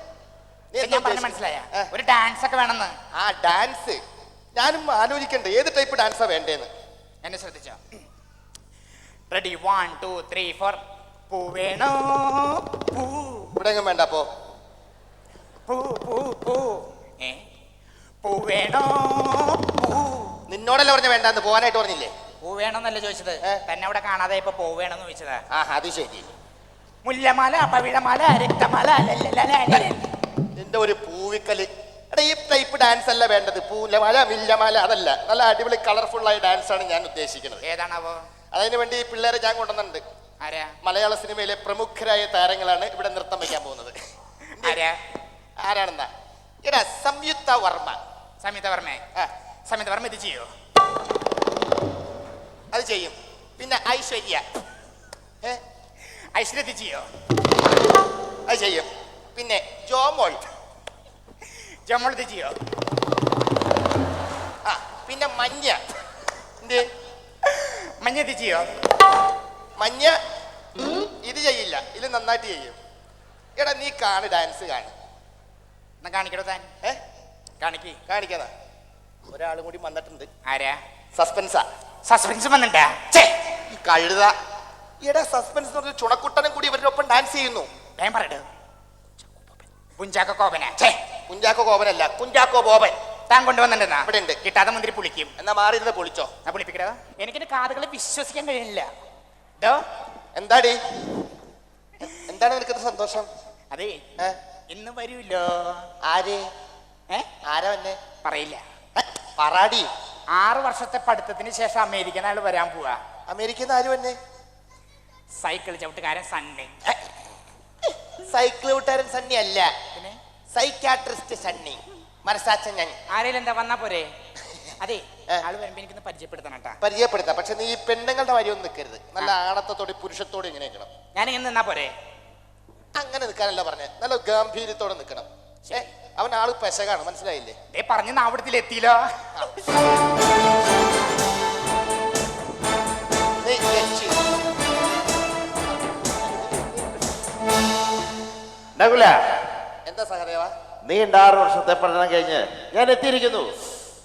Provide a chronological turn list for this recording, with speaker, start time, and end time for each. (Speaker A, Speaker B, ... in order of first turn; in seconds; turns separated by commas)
Speaker A: 0.7-1.9, Speaker B: 0.8-2.9, Speaker A: 3.2-4.0, Speaker A: 4.5-6.7, Speaker B: 7.2-7.8, Speaker B: 9.3-10.8, Speaker B: 11.3-13.5, Speaker A: 13.6-14.2, Speaker B: 15.7-17.4, Speaker B: 18.2-20.3, Speaker A: 20.5-22.1, Speaker B: 22.4-25.4, Speaker A: 25.5-26.3, Speaker B: 27.0-30.0, Speaker A: 30.6-37.6, Speaker B: 37.6-38.2, Speaker A: 38.5-40.0, Speaker B: 40.4-40.7, Speaker A: 40.8-43.9, Speaker B: 44.6-45.0, Speaker A: 45.6-46.1, Speaker A: 46.6-48.0, Speaker B: 48.4-49.0, Speaker B: 49.7-50.5, Speaker A: 52.7-54.4, Speaker B: 56.3-57.0, Speaker A: 58.5-60.4, Speaker B: 61.9-62.5, Speaker A: 64.7-65.8, Speaker B: 67.5-68.7, Speaker A: 69.8-70.1, Speaker A: 70.9-72.8, Speaker A: 73.6-74.9, Speaker B: 76.0-76.7, Speaker B: 77.6-78.0, Speaker A: 78.1-78.5, Speaker A: 79.3-80.3, Speaker B: 80.5-80.8, Speaker A: 81.2-81.6, Speaker B: 82.0-83.3, Speaker A: 83.7-84.3, Speaker A: 85.0-87.7, Speaker B: 88.0-88.4, Speaker B: 89.4-90.9, Speaker A: 91.3-92.9, Speaker B: 93.3-95.3, Speaker A: 94.0-94.4, Speaker A: 95.4-96.3, Speaker B: 96.5-98.9, Speaker A: 100.3-100.8, Speaker A: 102.2-103.3, Speaker B: 103.7-104.0, Speaker B: 104.7-105.9, Speaker A: 106.0-106.4, Speaker A: 107.5-108.0, Speaker B: 108.2-108.6, Speaker A: 109.0-109.9, Speaker B: 110.3-113.0, Speaker A: 113.3-114.2, Speaker B: 115.4-116.7, Speaker A: 118.2-119.7, Speaker A: 120.5-123.0, Speaker B: 123.1-124.1, Speaker B: 124.8-126.8, Speaker A: 126.8-130.9, Speaker B: 131.1-131.9, Speaker A: 132.9-137.6, Speaker B: 137.7-139.0, Speaker A: 143.4-144.1, Speaker A: 146.2-146.8, Speaker C: 148.8-149.2, Speaker A: 149.8-150.5, Speaker C: 150.8-153.5